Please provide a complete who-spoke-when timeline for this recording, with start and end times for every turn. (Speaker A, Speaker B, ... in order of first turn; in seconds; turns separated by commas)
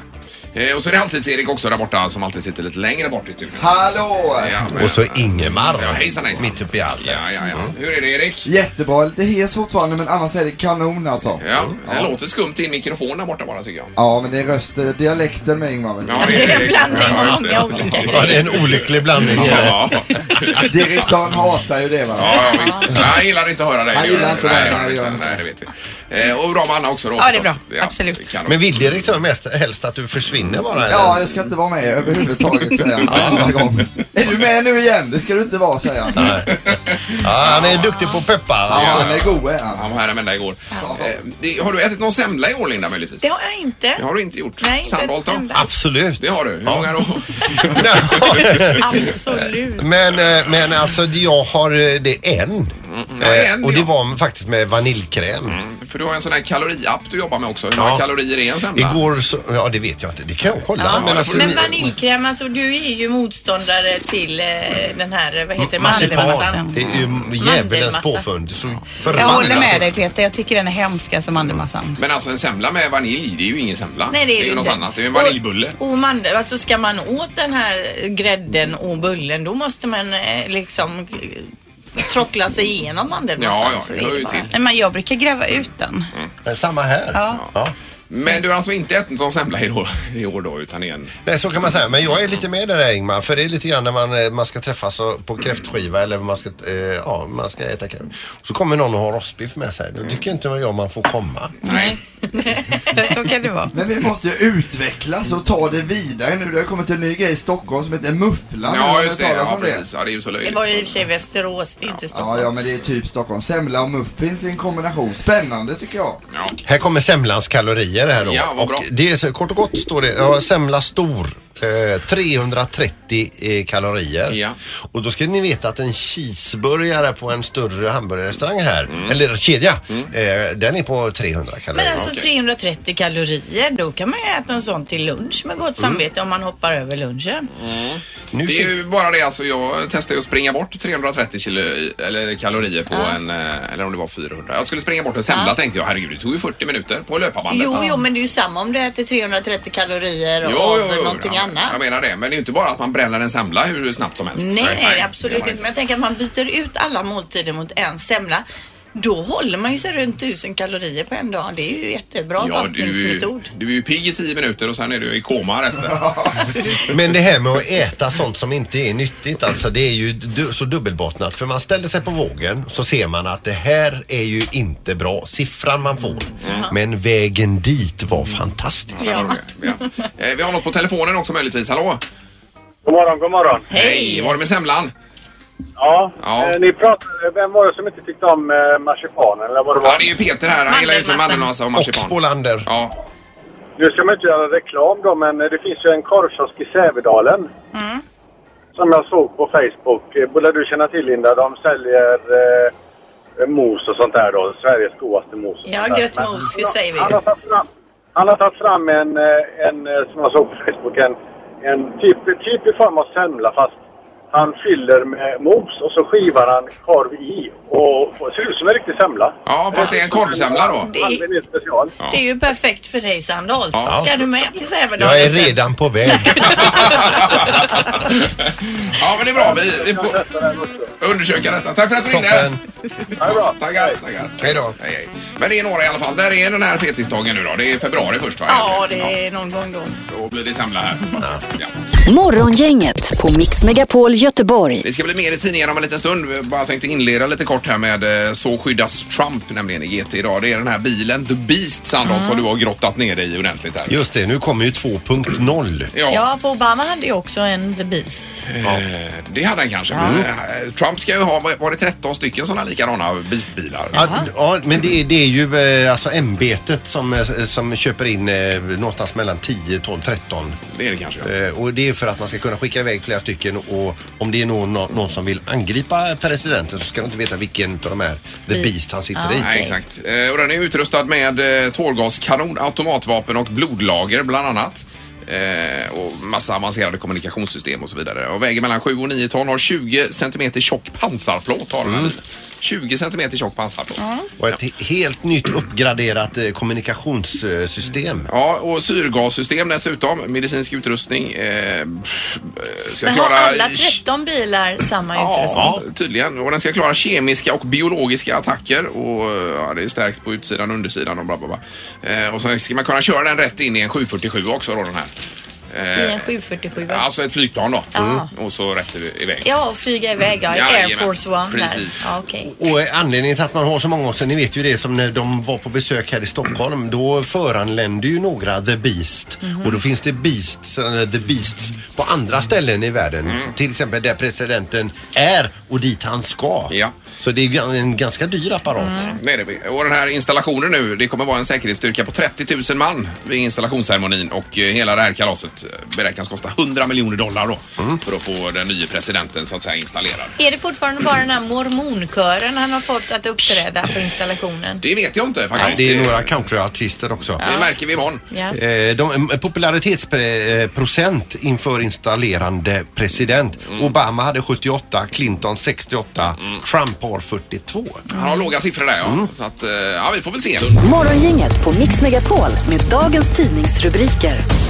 Speaker A: 0.5-3.7, Speaker B: 3.5-4.6, Speaker A: 4.4-8.5, Speaker C: 4.7-7.7, Speaker B: 8.4-12.1, Speaker A: 11.4-13.9, Speaker B: 13.9-17.4, Speaker A: 16.0-21.1, Speaker D: 16.1-18.3, Speaker C: 18.0-19.9, Speaker B: 20.6-23.2, Speaker A: 22.1-29.0, Speaker D: 22.3-22.9, Speaker B: 23.9-25.4, Speaker E: 27.2-28.3, Speaker C: 28.4-31.3, Speaker B: 30.9-36.3, Speaker C: 33.0-33.5, Speaker A: 33.1-33.4, Speaker C: 36.1-36.6, Speaker A: 36.5-38.0, Speaker C: 37.1-39.3, Speaker B: 38.7-39.9, Speaker A: 38.7-43.3, Speaker B: 40.8-41.1, Speaker D: 43.2-44.0, Speaker A: 44.0-45.4, Speaker D: 44.6-45.6, Speaker C: 45.5-46.9, Speaker A: 46.2-49.0, Speaker C: 47.5-49.1, Speaker D: 48.6-49.9, Speaker C: 49.8-55.6, Speaker A: 52.9-53.9, Speaker A: 55.5-59.0, Speaker C: 57.7-58.0, Speaker C: 58.7-61.9, Speaker D: 60.8-66.6, Speaker A: 60.8-61.7, Speaker C: 65.6-69.9, Speaker E: 65.8-66.7, Speaker D: 67.4-68.2, Speaker E: 69.1-72.0, Speaker A: 69.2-69.7, Speaker A: 72.0-75.8, Speaker D: 74.1-84.5, Speaker A: 83.4-84.5, Speaker E: 84.5-86.1, Speaker C: 86.4-87.7, Speaker E: 87.1-87.4, Speaker A: 88.1-91.1, Speaker C: 91.2-101.9, Speaker A: 101.6-101.9, Speaker E: 101.6-102.0, Speaker E: 102.6-103.7, Speaker B: 103.7-109.8, Speaker A: 108.7-111.0, Speaker D: 110.4-112.5, Speaker B: 112.1-116.2, Speaker A: 116.3-116.6, Speaker C: 116.6-132.1, Speaker A: 118.2-118.8, Speaker A: 124.3-124.6, Speaker A: 128.9-129.2, Speaker D: 131.7-137.5, Speaker A: 131.9-132.3, Speaker A: 137.6-147.8, Speaker C: 138.3-138.7, Speaker D: 142.9-143.2, Speaker D: 147.5-151.8, Speaker E: 147.7-148.0, Speaker A: 150.4-155.6, Speaker D: 154.4-163.5, Speaker A: 162.4-166.9, Speaker B: 165.8-166.4, Speaker C: 166.9-179.3, Speaker D: 176.4-176.7, Speaker A: 178.9-182.0, Speaker D: 179.0-179.4, Speaker F: 182.8-183.7, Speaker D: 183.7-184.4, Speaker A: 183.7-184.9, Speaker F: 185.8-190.1, Speaker A: 186.2-186.6, Speaker A: 189.8-192.9, Speaker D: 190.7-191.2, Speaker C: 191.7-192.7, Speaker F: 193.8-197.5, Speaker D: 197.8-198.0, Speaker F: 198.7-202.7, Speaker F: 203.4-213.8, Speaker D: 205.7-207.2, Speaker F: 214.3-221.9, Speaker A: 219.4-220.9, Speaker D: 220.8-221.2, Speaker D: 222.1-225.6, Speaker A: 223.7-224.0, Speaker C: 225.0-227.0, Speaker D: 226.1-227.5, Speaker A: 226.4-230.2, Speaker F: 229.3-230.9, Speaker A: 231.0-232.5, Speaker C: 232.1-232.6, Speaker A: 233.2-239.1, Speaker F: 233.2-234.0, Speaker C: 234.4-234.8, Speaker D: 238.5-239.9, Speaker A: 240.1-241.7, Speaker G: 242.1-244.9, Speaker A: 244.8-254.0, Speaker D: 252.0-252.4, Speaker C: 253.9-255.9, Speaker A: 255.9-256.2, Speaker D: 256.1-258.4, Speaker A: 258.5-264.0, Speaker C: 259.9-260.2, Speaker C: 263.9-270.6, Speaker D: 263.9-264.2, Speaker A: 270.7-271.3, Speaker C: 271.2-279.5, Speaker D: 278.5-279.7, Speaker A: 279.4-294.0, Speaker C: 291.8-292.1, Speaker D: 294.0-294.3, Speaker C: 294.4-298.3, Speaker A: 298.3-304.0, Speaker D: 303.0-305.6, Speaker A: 305.1-315.1, Speaker C: 305.5-305.8, Speaker A: 315.7-316.3, Speaker D: 315.9-317.0, Speaker A: 316.8-319.5, Speaker D: 317.9-318.3, Speaker C: 318.0-318.2, Speaker D: 319.4-322.5, Speaker A: 320.5-322.1, Speaker C: 322.4-339.2, Speaker D: 329.4-329.8, Speaker A: 333.3-333.5, Speaker D: 338.8-339.1, Speaker A: 339.1-350.3, Speaker D: 350.4-354.8, Speaker A: 354.8-356.3, Speaker C: 355.6-357.4, Speaker D: 357.4-357.7, Speaker A: 357.4-358.2, Speaker C: 358.5-368.0, Speaker A: 363.7-363.9, Speaker A: 368.1-370.8, Speaker D: 368.1-368.5, Speaker C: 369.0-369.3, Speaker G: 370.8-374.4